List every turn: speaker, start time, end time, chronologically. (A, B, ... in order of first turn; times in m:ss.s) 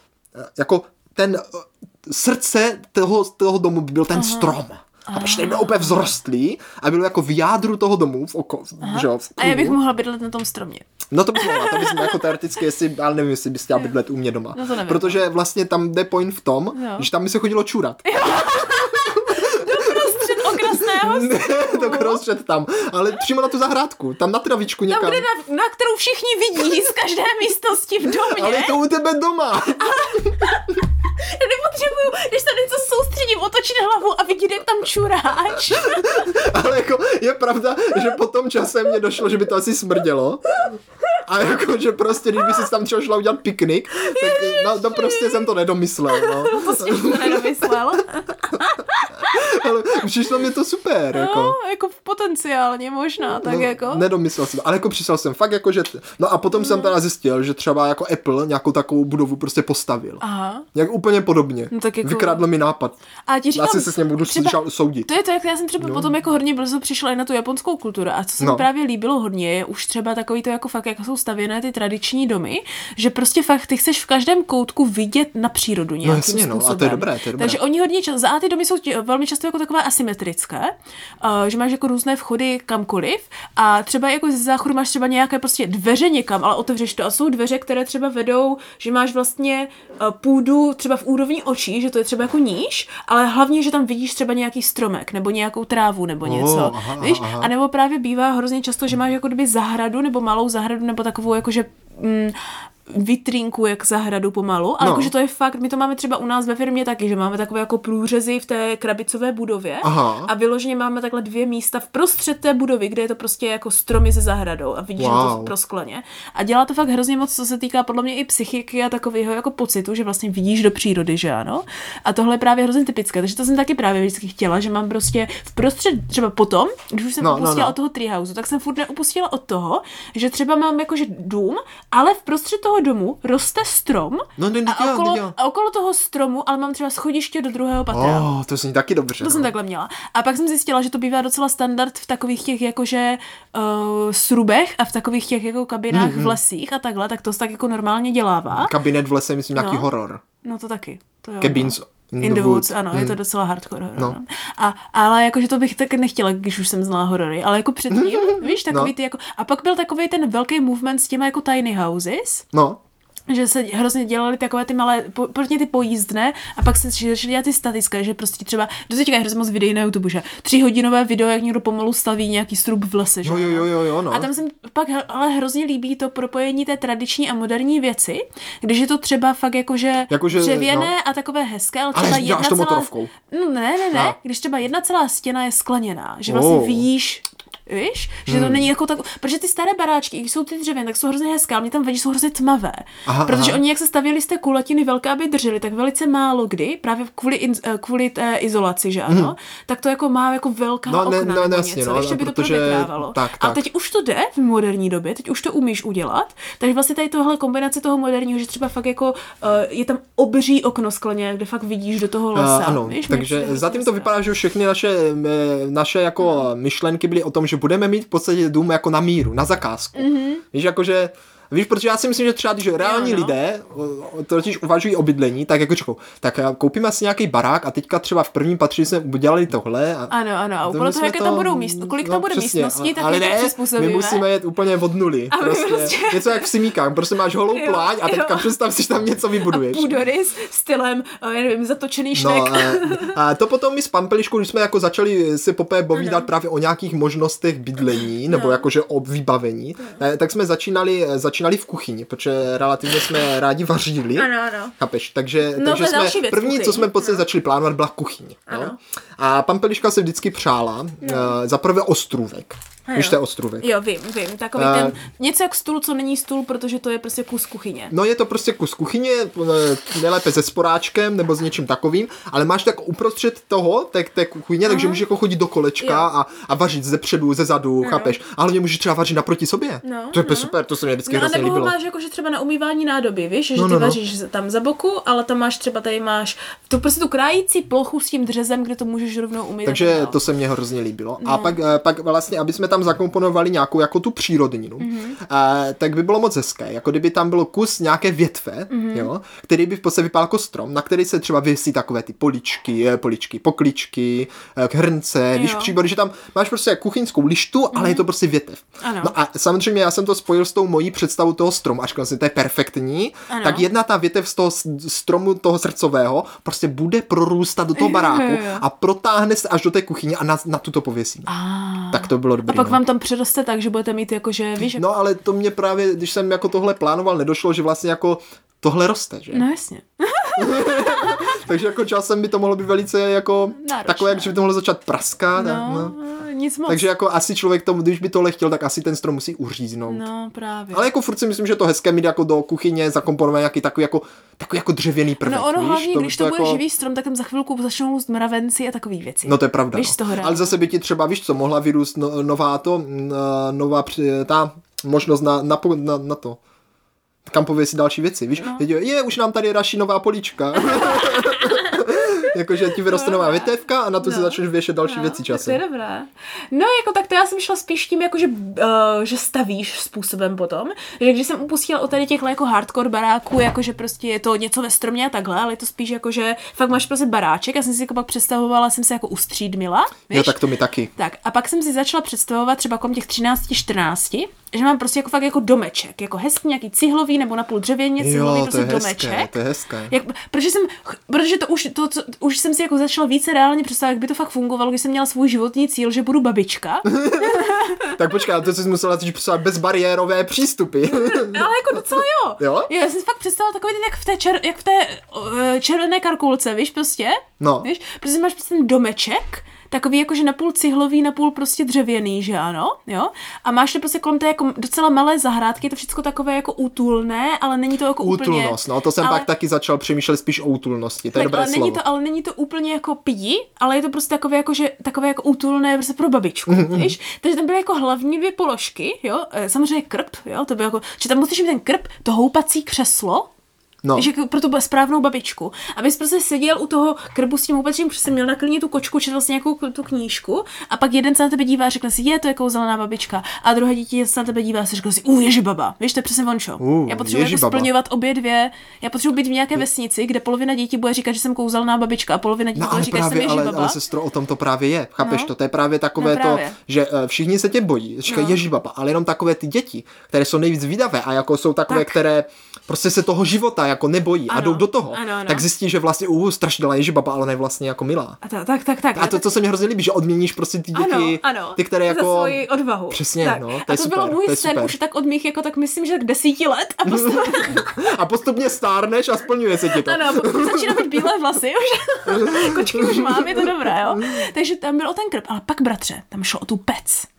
0:00.4-0:09.8 A
0:04.1-0:04.6 B
0:05.1-0:06.1 B
0:08.8-0:10.8 B
0:11.1-0:18.0 A
0:11.4-0:12.2 B
0:14.5-0:15.2 B
0:16.7-0:17.1 B
0:18.0-0:22.2 B
0:18.9-0:25.3 A
0:24.9-0:28.8 B
0:28.3-0:30.4 A
0:29.8-0:36.3 B
0:35.8-0:47.8 A
0:44.0-0:45.5 B
0:46.1-0:49.5 B
0:49.3-0:51.6 A
0:51.1-0:54.1 B
0:53.4-1:00.2 A
0:56.5-0:56.9 B
1:00.2-1:00.6 B
1:00.7-1:03.0 A
1:01.7-1:02.4 B
1:03.3-2:18.3 B
1:03.5-1:05.1 A
1:05.8-1:06.1 A
1:08.4-1:08.7 A
1:16.0-1:17.6 A
1:36.2-1:37.5 A
1:44.8-1:45.1 A
1:49.8-1:50.3 A
1:55.0-1:55.5 A
2:07.2-2:07.8 A
2:14.4-2:15.4 A
2:17.9-2:19.5 A
2:19.2-2:28.7 B
2:25.9-2:26.4 A
2:28.5-2:30.2 A
2:29.6-2:29.9 B
2:30.4-2:42.4 B
2:31.4-2:33.2 A
2:37.9-2:38.9 A
2:42.5-2:42.8 A
2:43.3-3:34.2 B
2:53.2-2:54.3 A
3:00.1-3:00.9 A
3:01.9-3:03.1 A
3:06.3-3:06.9 A
3:08.3-3:08.7 A
3:13.1-3:13.6 A
3:19.1-3:19.3 A
3:20.9-3:23.6 A
3:32.4-3:50.1 A
3:40.0-3:40.4 B
3:42.8-3:43.4 B
3:50.1-3:54.3 B
3:50.6-3:59.9 A
3:55.3-3:56.5 B
3:57.5-3:58.5 B
3:59.5-4:03.2 B
4:02.1-4:23.7 A
4:06.0-4:06.3 B
4:08.3-4:08.7 B
4:14.2-4:14.8 B
4:15.5-4:17.2 B
4:18.5-4:18.8 B
4:21.0-4:21.3 B
4:22.9-4:27.9 B
4:24.6-4:25.0 A
4:27.9-4:41.8 A
4:34.7-4:35.0 B
4:35.8-4:36.1 B
4:37.8-4:38.2 B
4:39.8-4:50.2 B
4:43.6-4:44.0 A
4:49.6-5:21.3 A
4:51.2-4:51.6 B
4:54.8-4:55.2 B
4:58.7-4:59.1 B
5:05.3-5:05.8 B
5:07.7-5:08.0 B
5:08.8-5:09.1 B
5:13.3-5:13.7 B
5:17.8-5:18.6 B
5:21.3-5:24.8 B
5:21.9-5:22.8 A
5:24.7-5:29.4 A
5:29.3-5:31.4 B
5:30.4-5:36.0 A
5:33.6-5:34.4 B
5:35.4-5:36.9 B
5:36.7-5:40.1 A
5:39.9-5:40.9 B
5:40.7-5:46.6 A
5:45.2-5:50.5 B
5:49.2-5:56.4 A
5:57.3-6:05.6 A
6:00.6-6:02.2 B
6:02.8-6:03.5 B
6:04.0-6:20.4 B
6:20.1-6:20.9 A
6:21.0-6:29.4 B
6:28.0-6:29.9 A
6:29.9-6:38.0 B
6:36.9-6:42.7 A
6:40.9-6:59.3 B
6:47.4-6:47.7 A
6:58.0-7:01.8 A
7:01.1-7:13.3 B
7:06.5-7:07.0 A
7:13.8-7:14.1 A
7:14.0-7:33.8 B
7:26.6-7:27.7 A
7:32.6-7:48.2 A
7:35.0-7:35.3 B
7:36.0-7:36.6 B
7:38.1-7:38.4 B
7:41.7-7:42.0 B
7:44.3-7:45.5 B
7:48.2-7:49.3 B
7:49.0-7:54.7 A
7:50.7-7:57.8 B
7:56.9-8:01.0 A
7:59.7-8:07.1 B
8:02.1-8:04.2 A